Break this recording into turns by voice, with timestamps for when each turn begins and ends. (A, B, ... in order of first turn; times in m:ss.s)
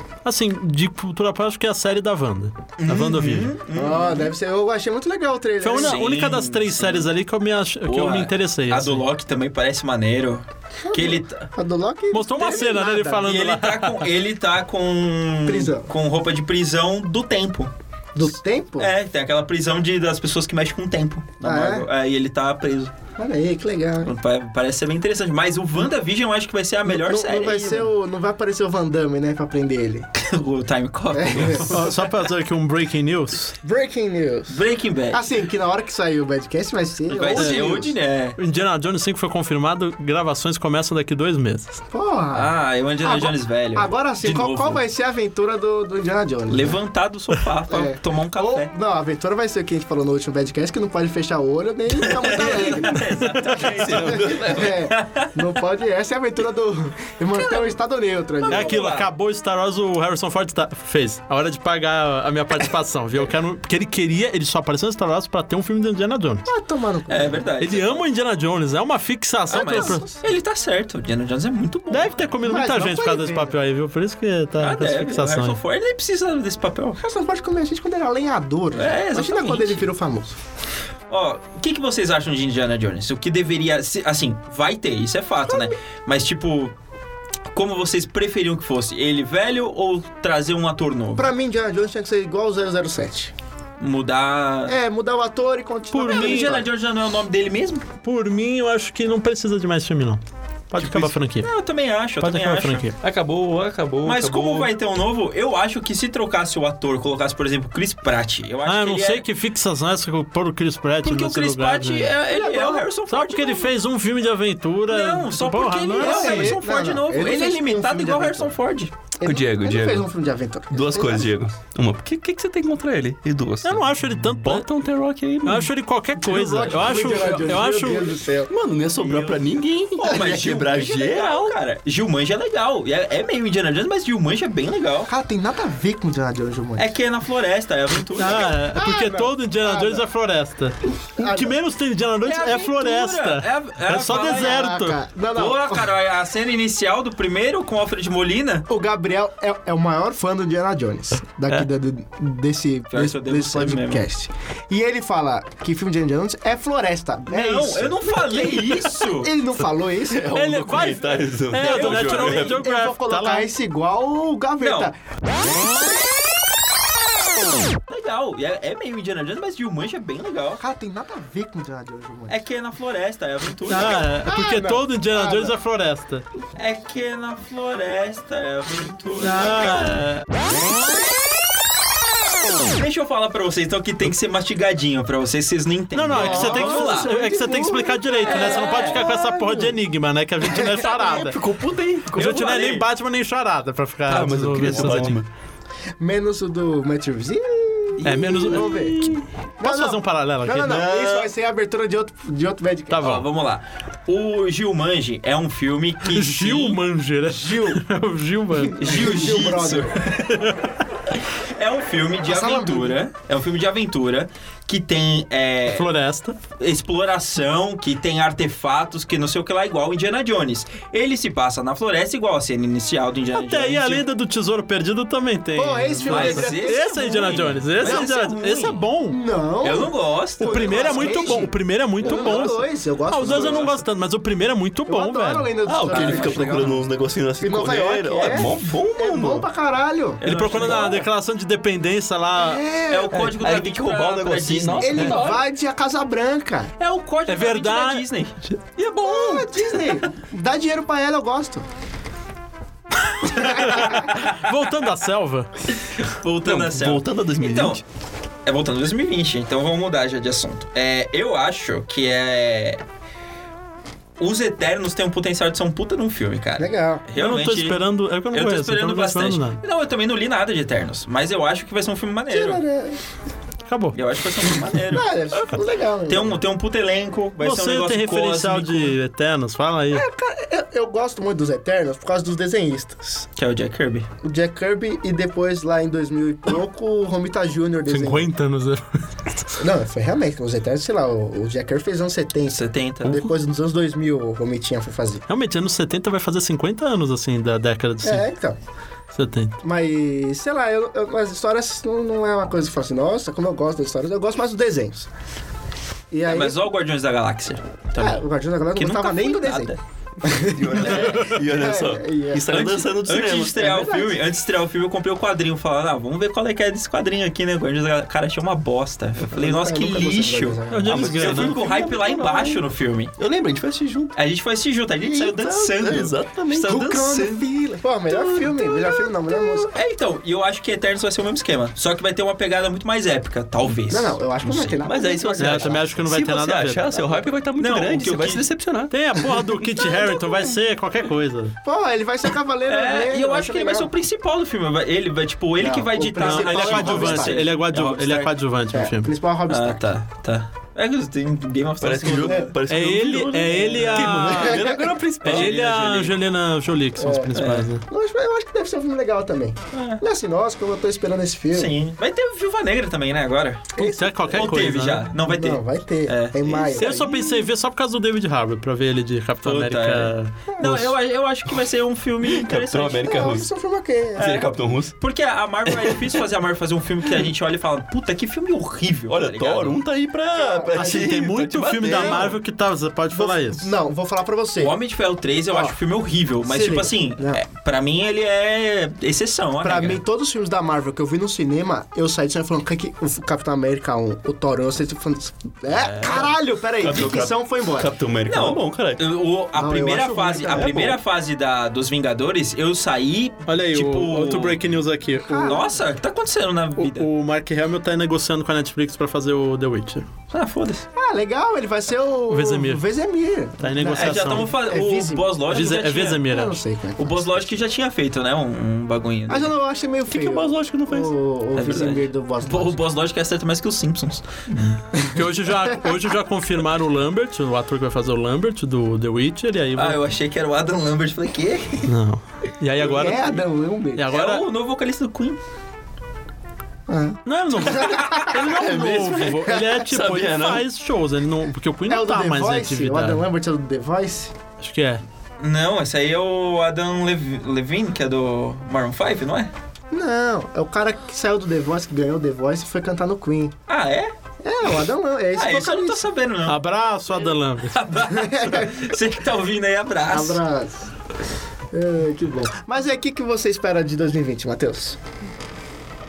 0:00.2-0:03.5 A
0:02.8-0:04.3 B
0:03.8-0:06.0 C
0:05.6-0:09.0 A
0:05.7-0:07.1 B
0:07.9-0:11.5 B
0:10.9-0:13.3 C
0:12.1-0:14.1 A
0:13.2-0:22.9 B
0:15.5-0:15.9 C
0:18.2-0:18.9 C
0:21.4-0:21.9 C
0:23.2-0:24.1 C
0:24.0-0:27.9 B
0:26.9-0:30.1 C
0:30.2-0:32.0 B
0:31.1-0:31.9 C
0:31.6-0:33.6 A
0:33.6-0:34.6 C
0:34.5-0:35.2 B
0:35.1-0:37.9 C
0:37.1-0:38.4 B
0:37.4-0:37.6 A
0:38.4-0:41.8 A
0:41.9-0:46.8 C
0:42.3-0:44.8 B
0:46.5-0:48.7 B
0:47.7-0:53.1 C
0:52.0-0:55.3 B
0:53.2-0:53.6 A
0:53.6-0:54.9 D
0:54.0-0:58.8 C
0:57.4-0:57.6 B
0:58.5-0:59.1 B
0:58.5-1:06.5 A
1:06.5-1:07.5 C
1:07.1-1:08.1 B
1:07.6-1:10.1 A
1:09.5-1:12.4 B
1:09.6-1:10.0 C
1:11.9-1:15.6 A
1:12.4-1:13.6 C
1:14.6-1:17.0 B
1:17.0-1:20.4 C
1:18.7-1:19.9 B
1:21.1-1:26.8 B
1:25.5-1:25.8 C
1:27.5-1:31.3 B
1:31.2-1:33.3 C
1:33.8-1:34.8 B
1:34.7-1:36.7 C
1:35.9-1:36.6 A
1:36.0-1:37.8 B
1:38.0-1:41.5 A
1:40.8-1:42.9 B
1:42.2-1:43.0 A
1:43.0-1:44.7 D
1:44.0-1:49.2 B
1:48.6-1:52.1 A
1:51.0-1:53.7 B
1:52.3-1:52.9 C
1:53.1-1:56.6 A
1:54.9-1:58.9 B
1:56.0-1:58.6 C
1:59.2-2:01.3 C
1:59.2-2:00.1 D
2:00.7-2:03.9 D
2:03.6-2:04.7 A
2:04.4-2:05.7 D
2:05.4-2:08.2 A
2:06.2-2:08.5 C
2:08.5-2:11.6 D
2:09.0-2:15.1 B
2:15.1-2:17.0 C
2:16.8-2:18.6 B
2:18.2-2:25.0 A
2:18.5-2:20.0 C
2:21.2-2:21.5 C
2:22.2-2:24.7 B
2:24.2-2:25.9 C
2:25.3-2:28.7 B
2:28.7-2:40.2 C
2:32.9-2:34.0 B
2:37.3-2:39.3 B
2:40.1-2:42.6 D
2:40.3-2:43.5 A
2:41.5-2:42.6 B
2:42.3-2:45.0 C
2:44.6-2:44.9 B
2:47.9-2:50.6 B
2:50.6-2:52.4 C
2:52.3-2:54.1 B
2:53.7-2:56.2 A
2:53.8-2:55.5 C
2:56.6-3:00.2 B
2:59.2-3:00.1 A
3:02.7-3:07.2 B
3:05.9-3:11.4 A
3:06.1-3:09.7 C
3:08.2-3:09.1 B
3:10.4-3:10.8 C
3:10.8-3:12.3 D
3:12.1-3:15.2 A
3:12.1-3:12.9 B
3:14.1-3:15.3 D
3:14.7-3:15.1 B
3:16.0-3:23.0 C
3:18.0-3:18.7 B
3:18.0-3:20.8 A
3:20.6-3:21.3 D
3:20.8-3:21.2 B
3:22.9-3:23.3 A
3:23.0-3:26.8 B
3:26.1-3:28.8 A
3:27.3-3:27.8 C
3:28.6-3:30.0 C
3:28.8-3:30.3 B
3:31.6-3:35.9 B
3:32.3-3:33.0 C
3:35.7-3:36.4 A
3:36.6-3:44.0 B
3:43.3-3:49.2 A
3:45.6-3:47.0 C
3:46.0-3:48.8 B
3:49.1-3:53.7 C
3:49.6-3:51.5 B
3:50.4-3:55.5 A
3:52.0-3:52.5 B
3:53.2-3:53.7 B
3:54.9-3:56.9 C
3:55.7-3:59.5 D
3:55.9-3:56.7 B
3:57.4-4:00.2 C
3:58.3-3:58.6 B
4:00.2-4:01.1 B
4:00.2-4:02.6 A
4:02.4-4:03.3 C
4:02.9-4:05.3 B
4:03.1-4:05.4 D
4:04.8-4:06.7 C
4:06.8-4:10.0 B
4:07.3-4:09.1 A
4:09.0-4:11.7 C
4:13.2-4:15.5 A
4:13.4-4:14.0 C
4:16.0-4:17.8 B
4:16.4-4:17.8 D
4:18.5-4:22.8 B
4:24.2-4:32.6 B
4:26.6-4:27.0 C
4:27.2-4:29.6 A
4:32.3-4:33.0 C
4:33.7-4:34.0 A
4:33.9-4:35.1 B
4:34.9-4:36.4 C
4:36.1-4:39.0 B
4:37.4-4:40.0 A
4:39.9-4:43.2 C
4:43.4-4:44.1 B
4:44.2-4:48.3 C
4:47.9-4:48.8 A
4:49.6-4:55.2 C
4:52.5-4:53.3 B
4:55.3-4:58.3 A
4:58.0-4:58.6 C
4:59.1-4:59.6 A
4:59.6-5:05.1 C
5:06.1-5:06.6 C
5:06.2-5:09.8 B
5:08.0-5:12.6 C
5:10.2-5:13.7 D
5:10.8-5:11.3 B
5:12.5-5:23.1 B
5:13.6-5:14.2 C
5:19.3-5:21.2 C
5:20.7-5:21.5 A
5:20.9-5:22.6 D
5:23.2-5:24.1 D
5:24.2-5:27.4 B
5:25.0-5:27.2 D
5:25.8-5:26.1 C
5:26.7-5:29.7 C
5:28.1-5:29.6 D
5:29.7-5:34.8 B
5:33.9-5:35.9 C
5:34.8-5:39.5 D
5:35.4-5:36.9 A
5:37.6-5:38.4 B
5:38.9-5:41.6 A
5:39.8-5:40.6 C
5:41.6-5:43.9 C
5:42.7-5:48.4 B
5:45.6-5:47.5 C
5:46.2-5:49.1 A
5:48.7-5:49.8 C
5:49.5-5:52.5 B
5:51.8-5:56.1 D
5:52.2-5:52.5 C
5:52.7-5:54.6 A
5:53.7-5:54.9 C
5:55.2-5:57.8 A
5:55.2-5:56.1 B
5:57.0-6:01.7 C
5:57.4-5:57.7 B
5:59.7-6:00.0 B
6:01.5-6:03.7 B
6:03.8-6:05.1 A
6:03.8-6:07.4 C
6:04.3-6:07.1 B
6:06.7-6:10.9 A
6:09.4-6:13.1 B
6:12.3-6:13.5 D
6:13.0-6:14.4 C
6:14.2-6:15.0 D
6:14.2-6:19.8 B
6:15.7-6:16.2 D
6:19.1-6:22.4 D
6:20.4-6:21.0 C
6:20.8-6:23.7 A
6:21.8-6:22.2 C
6:21.9-6:22.2 B
6:23.1-6:24.8 C
6:24.6-6:30.0 B
6:26.4-6:27.4 C
6:29.6-6:37.9 C
6:35.7-6:36.4 B
6:36.8-6:39.1 D
6:38.3-6:44.6 B
6:39.6-6:40.7 C
6:40.5-6:41.0 D
6:43.5-6:45.6 A
6:45.3-6:45.7 C
6:45.4-6:47.1 B
6:46.8-6:50.1 A
6:50.3-6:50.9 B
6:51.0-6:57.5 C
6:52.3-6:52.8 A
6:53.6-6:54.5 A
6:54.0-6:56.3 B
6:55.5-6:56.6 A
6:57.0-6:59.5 B
6:59.3-7:02.8 C
7:00.1-7:01.1 D
7:01.6-7:04.7 B
7:04.9-7:10.0 A
7:09.8-7:11.9 B
7:11.9-7:14.5 A
7:12.8-7:14.2 C
7:14.1-7:15.4 B
7:16.9-7:18.4 C
7:17.3-7:23.3 A
7:17.7-7:18.1 B
7:18.3-7:20.6 D
7:21.9-7:24.3 C
7:24.6-7:25.0 A
7:25.4-7:29.5 B
7:29.9-7:33.6 C
7:33.7-7:34.1 B
7:34.4-7:36.0 C
7:35.4-7:36.6 B
7:36.5-7:37.8 A
7:37.8-7:40.4 B
7:38.1-7:38.9 C
7:40.1-7:40.9 C
7:41.7-7:45.0 C